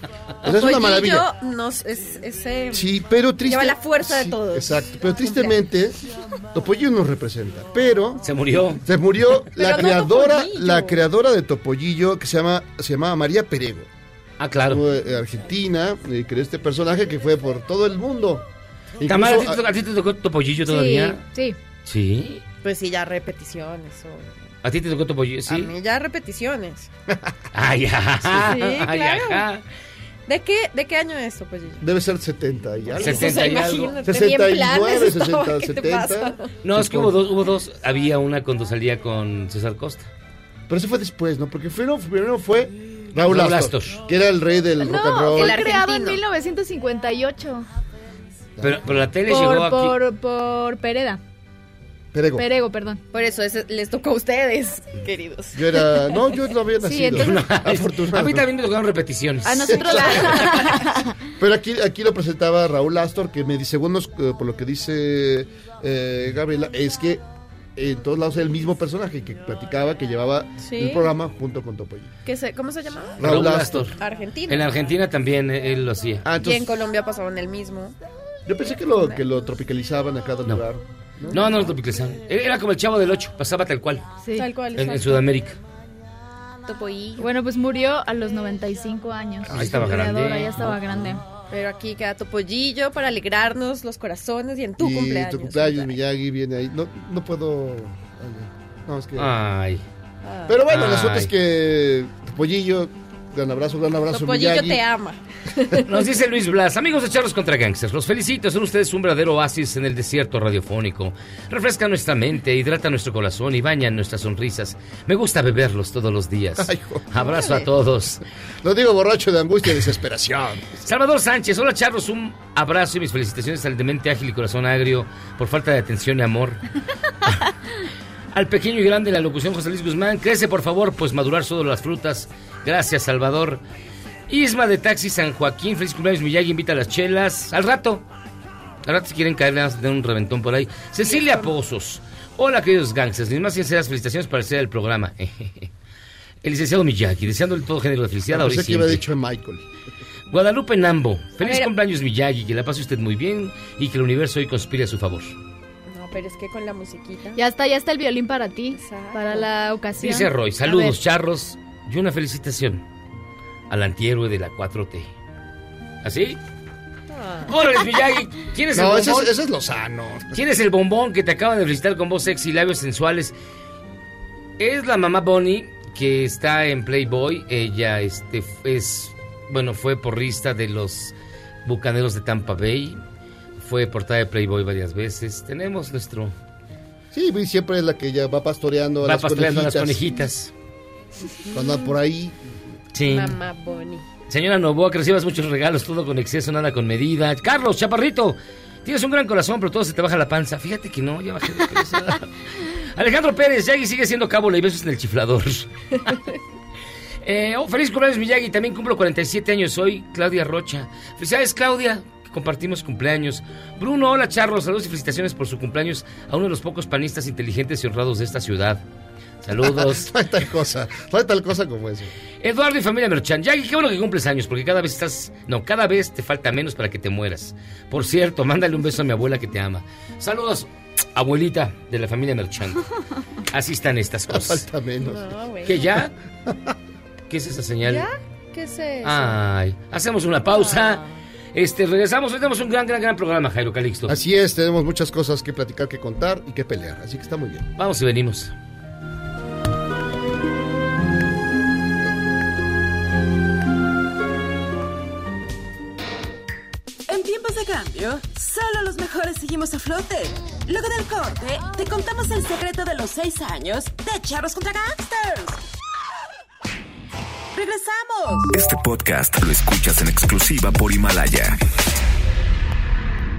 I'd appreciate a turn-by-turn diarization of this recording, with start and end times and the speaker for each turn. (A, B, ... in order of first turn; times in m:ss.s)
0:00.4-0:01.3 A
0:00.5-0:02.9 B
0:02.7-0:06.0 A
0:03.4-0:05.6 B
0:06.5-0:08.3 A
0:08.2-0:08.8 C
0:08.8-0:13.9 A
0:09.5-0:11.0 B
0:14.4-0:14.8 C
0:14.7-0:18.4 A
0:19.0-0:19.6 A
0:19.0-0:21.2 C
0:20.6-0:21.6 D
0:21.8-0:22.4 C
0:22.6-0:24.3 B
0:24.6-0:25.7 C
0:25.5-0:26.9 B
0:27.5-0:29.6 C
0:28.3-0:29.4 B
0:30.3-0:31.8 B
0:31.8-0:37.2 A
0:33.0-0:36.5 B
0:33.0-0:33.9 C
0:36.6-0:40.1 C
0:40.7-0:45.6 A
0:43.2-0:44.0 C
0:44.8-0:47.6 D
0:45.3-0:46.2 B
0:48.6-0:49.0 A
0:48.6-0:49.9 C
0:49.3-0:51.2 D
0:52.1-0:52.4 A
0:52.4-0:53.0 D
0:53.1-0:56.1 B
0:55.5-0:58.4 A
0:56.8-0:57.3 D
0:57.1-1:00.0 C
0:59.4-1:01.0 D
0:59.7-1:00.4 A
1:01.4-1:07.2 A
1:07.8-1:12.1 A
1:10.6-1:11.1 B
1:12.2-1:13.2 B
1:13.2-1:13.9 A
1:13.2-1:14.0 C
1:14.0-1:14.8 B
1:14.5-1:16.2 C
1:16.2-1:16.7 A
1:16.4-1:17.9 B
1:18.4-1:21.6 A
1:21.3-1:24.0 C
1:24.3-1:25.3 B
1:24.7-1:25.6 C
1:26.6-1:27.3 B
1:27.2-1:31.2 D
1:29.5-1:31.1 C
1:29.5-1:29.9 A
1:31.5-1:36.0 B
1:34.8-1:39.3 A
1:39.2-1:39.8 C
1:40.2-1:40.6 B
1:40.4-1:44.8 A
1:40.7-1:41.3 C
1:44.1-1:45.8 B
1:45.9-1:58.2 C
1:56.6-1:57.0 A
1:57.2-1:57.7 B
1:58.6-2:00.7 A
2:00.8-2:06.6 C
2:08.3-2:13.6 C
2:14.3-2:18.0 C
2:18.8-2:25.7 C
2:21.0-2:21.5 B
2:26.4-2:29.0 C
2:28.3-2:29.6 A
2:30.3-2:35.3 C
2:31.4-2:31.7 B
2:35.9-2:37.4 B
2:37.3-2:41.0 D
2:38.7-2:39.5 B
2:40.0-2:42.8 C
2:43.7-2:45.1 C
2:46.0-2:46.4 C
2:47.1-2:47.5 B
2:47.4-2:49.3 C
2:48.7-2:50.4 A
2:50.3-2:53.3 C
2:54.6-3:01.1 C
3:01.6-3:03.0 C
3:03.6-3:06.3 C
3:07.1-3:10.1 A
3:09.0-3:10.5 C
3:11.5-3:12.4 A
3:12.9-3:13.4 C
3:13.0-3:14.0 B
3:14.3-3:26.2 C
3:27.2-3:38.8 C
3:39.4-3:40.1 C
3:39.6-3:42.1 A
3:42.4-3:52.8 C
3:53.5-3:54.6 C
3:54.3-3:55.2 A
3:55.0-3:56.0 B
3:55.6-3:56.1 C
3:57.3-3:58.0 C
3:57.8-3:59.4 B
3:59.0-4:01.0 C
4:00.5-4:01.2 B
4:01.5-4:04.1 C
4:04.1-4:07.7 A
4:07.8-4:08.5 C
4:17.1-4:25.6 E
4:27.5-4:28.5 E
4:28.5-4:31.6 F